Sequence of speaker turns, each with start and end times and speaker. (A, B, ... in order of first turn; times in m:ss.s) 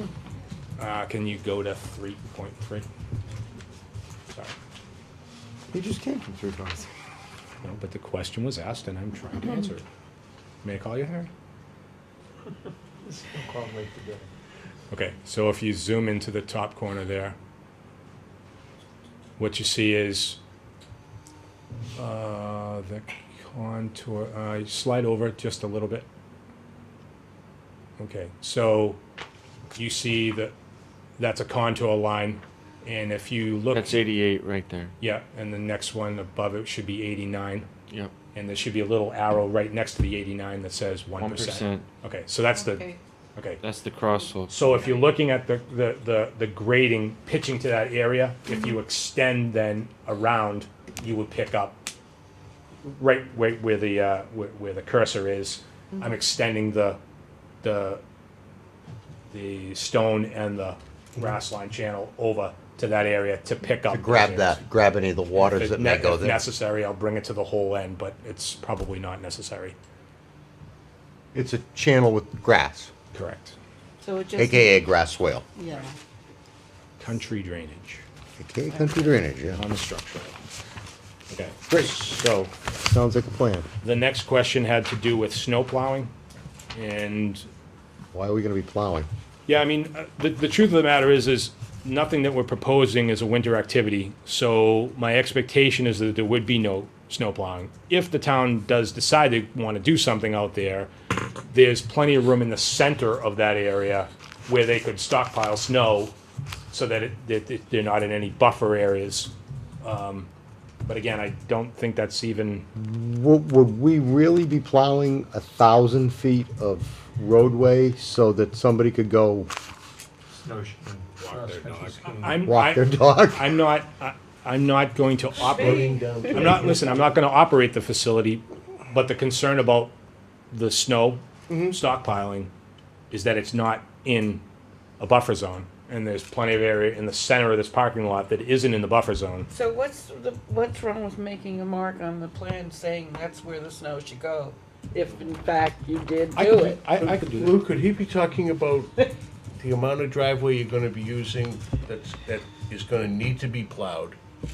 0:00.8-0:02.9 A
0:05.7-0:06.9 B
0:07.6-0:09.8 A
0:10.6-0:11.3 A
0:13.0-0:14.3 B
0:14.9-0:17.4 A
0:19.4-0:20.4 A
0:22.0-0:26.0 A
0:28.0-0:29.0 A
0:29.8-0:30.5 A
0:31.2-0:34.0 A
0:33.7-0:34.9 C
0:35.0-0:37.7 A
0:38.3-0:43.6 A
0:41.2-0:41.8 C
0:42.5-0:43.0 D
0:43.6-0:44.5 C
0:44.5-0:51.8 A
0:52.8-0:57.0 A
0:57.6-0:58.0 A
0:59.3-1:04.6 A
1:03.9-1:06.4 B
1:05.4-1:09.8 A
1:11.3-1:12.9 B
1:13.1-1:13.6 A
1:14.0-1:14.8 D
1:14.4-1:15.5 B
1:15.6-1:16.0 D
1:17.0-1:18.0 A
1:18.4-1:19.6 B
1:18.7-1:19.1 D
1:19.5-1:20.4 A
1:21.3-1:22.4 A
1:21.7-1:23.7 B
1:23.8-1:26.1 A
1:26.7-1:27.5 A
1:28.1-1:29.1 B
1:29.5-1:40.9 A
1:41.5-1:46.1 A
1:46.7-1:50.3 A
1:50.9-1:52.7 A
1:52.8-1:59.5 B
2:00.4-2:02.5 C
2:01.2-2:09.9 A
2:02.4-2:03.6 B
2:05.4-2:07.1 E
2:05.4-2:06.3 D
2:10.5-2:12.5 A
2:11.5-2:11.8 B
2:13.1-2:14.4 A
2:15.0-2:19.5 A
2:19.5-2:26.8 D
2:26.4-2:27.6 A
2:27.0-2:28.9 E
2:29.6-2:34.2 E